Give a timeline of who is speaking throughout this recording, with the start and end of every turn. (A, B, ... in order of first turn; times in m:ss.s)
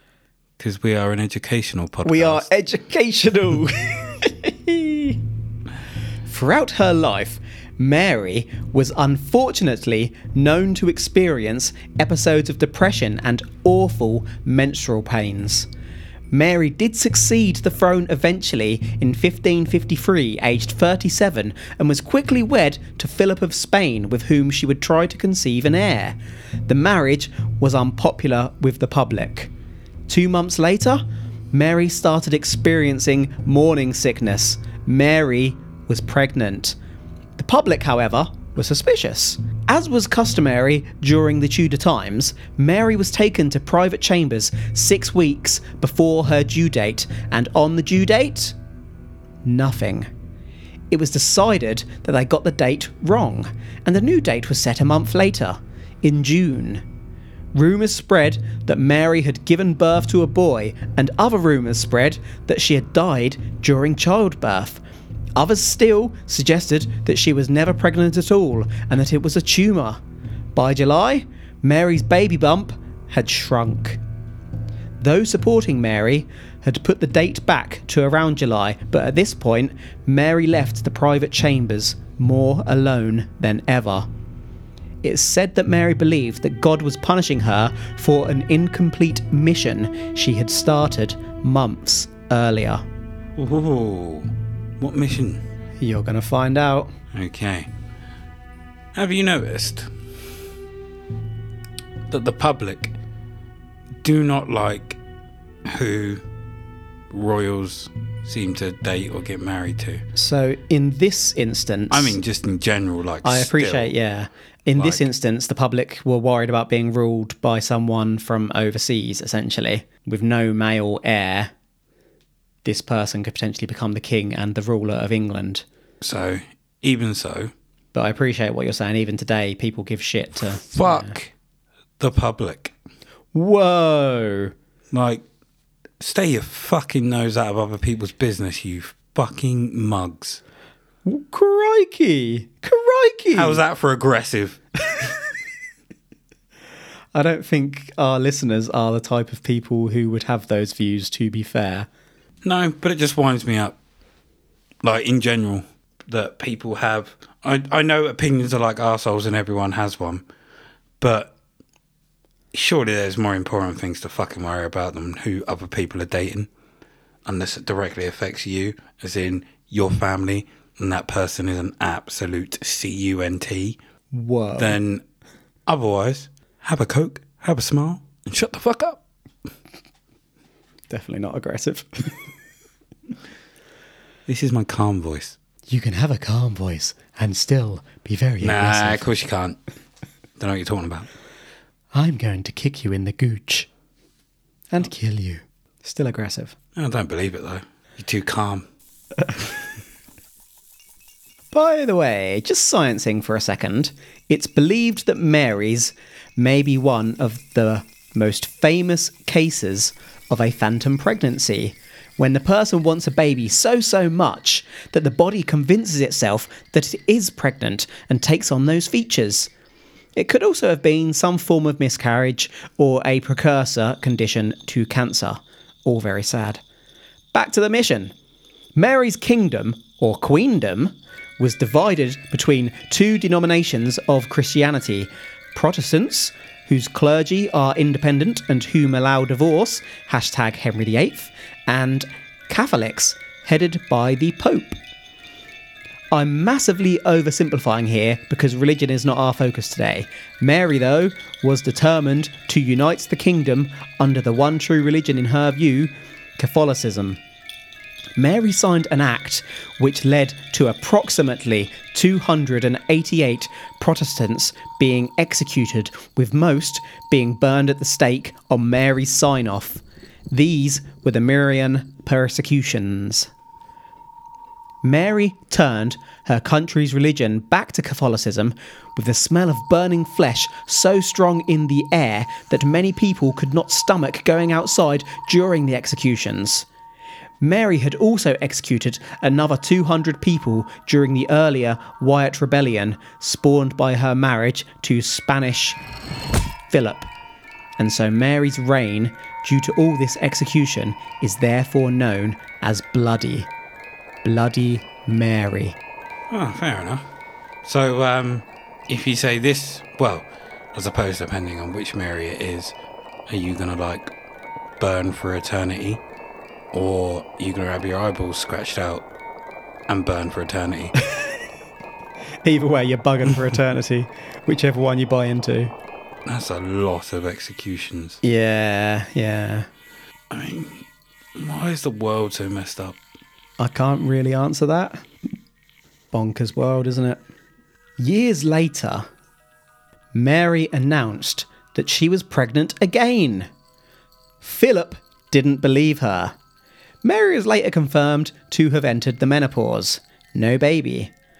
0:00.6-0:02.5 A
0:02.0-0:05.2 B
0:06.3-0:15.7 B
0:16.3-0:26.2 B
0:26.7-0:29.5 B
0:30.1-0:36.8 B
0:37.4-0:48.5 B
0:49.4-0:50.1 B
0:50.9-0:56.8 B
0:57.5-1:04.8 B
1:05.4-1:10.0 B
1:10.5-1:14.0 B
1:15.0-1:24.1 B
1:25.0-1:32.8 B
1:33.4-1:35.4 A
1:35.8-1:36.9 B
1:37.1-1:37.7 A
1:38.9-1:40.0 A
1:42.1-1:42.9 A
1:44.0-1:45.0 A
1:45.6-1:46.2 A
1:47.1-1:50.0 A
1:50.1-1:52.2 B
1:51.9-1:53.9 A
1:53.2-2:01.5 B
1:54.8-1:55.1 A
2:02.6-2:05.6 B
2:06.0-2:07.5 A
2:07.9-2:11.1 B
2:10.5-2:11.3 A
2:12.0-2:12.7 A
2:13.3-2:14.5 B
2:14.9-2:15.2 A
2:16.0-2:20.4 A
2:21.0-2:23.6 B
2:23.3-2:24.6 A
2:27.1-2:31.9 B
2:32.4-2:33.8 A
2:34.8-2:40.2 A
2:41.0-2:41.3 A
2:42.5-2:46.5 A
2:47.2-2:53.8 A
2:54.1-2:54.8 B
2:54.6-2:55.0 A
2:55.6-2:59.0 A
3:00.9-3:02.2 B
3:04.3-3:05.4 A
3:05.7-3:09.1 B
3:08.4-3:09.6 A
3:10.4-3:11.1 A
3:11.9-3:13.7 B
3:14.7-3:16.5 B
3:16.8-3:18.7 A
3:21.5-3:39.5 B
3:40.2-3:46.6 B
3:47.3-3:48.1 B
3:48.8-4:04.8 B
4:06.1-4:17.2 B
4:18.2-4:33.3 B
4:34.8-4:46.7 B
4:47.4-4:55.8 B
4:56.7-4:57.1 B
4:57.8-5:03.5 B
5:04.2-5:05.8 B
5:06.3-5:07.0 A
5:07.6-5:12.7 A
5:13.3-5:14.1 A
5:14.8-5:16.0 A
5:16.7-5:19.0 A
5:19.9-5:20.9 A
5:21.0-5:21.3 B
5:22.4-5:25.7 B
5:26.2-5:28.2 A
5:28.2-5:29.7 B
5:30.3-5:33.0 A
5:33.6-5:35.0 B
5:36.1-5:37.2 B
5:38.0-5:39.1 B
5:40.1-5:43.5 B
5:44.4-5:46.3 B
5:47.0-5:51.1 B